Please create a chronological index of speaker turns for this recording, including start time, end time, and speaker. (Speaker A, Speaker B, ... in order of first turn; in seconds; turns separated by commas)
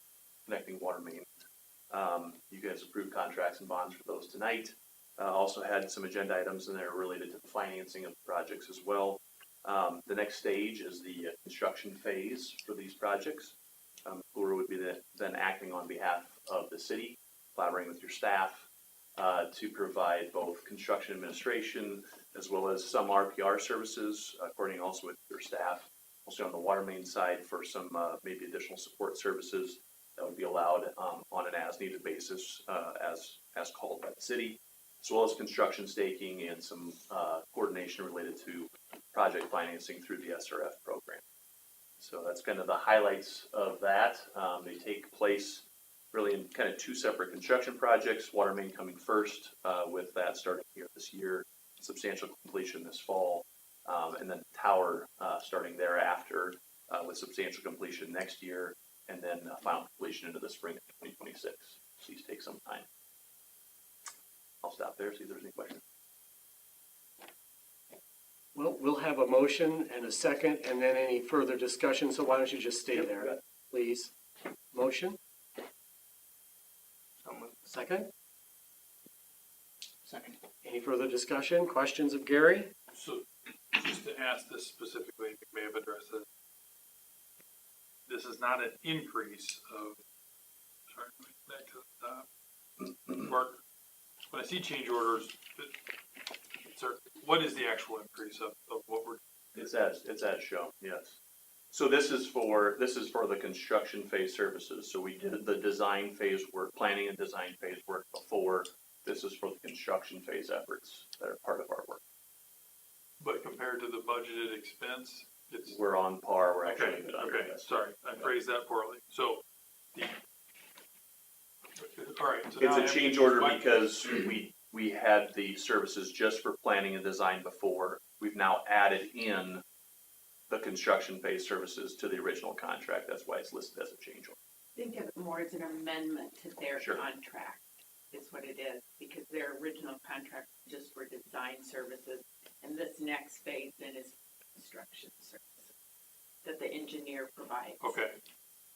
Speaker A: 0.5-1.3, Speaker A: 1.9-13.5, Speaker A: 14.1-18.6, Speaker A: 19.2-41.2, Speaker A: 42.0-62.8, Speaker A: 64.6-65.8, Speaker B: 68.5-74.1, Speaker A: 72.9-73.4, Speaker B: 74.7-75.2, Speaker B: 77.7-78.1, Speaker B: 80.6-82.7, Speaker C: 82.9-86.2, Speaker C: 88.1-90.0, Speaker C: 90.9-92.2, Speaker C: 93.1-93.6, Speaker C: 94.3-95.8, Speaker C: 96.6-99.2, Speaker A: 99.5-101.2, Speaker A: 101.7-112.0, Speaker C: 113.2-115.8, Speaker A: 115.7-118.3, Speaker C: 116.6-119.4, Speaker C: 121.8-123.7, Speaker A: 122.6-129.6, Speaker A: 130.5-134.3, Speaker D: 134.8-145.7, Speaker A: 136.8-137.0, Speaker D: 146.4-148.0, Speaker C: 147.8-148.2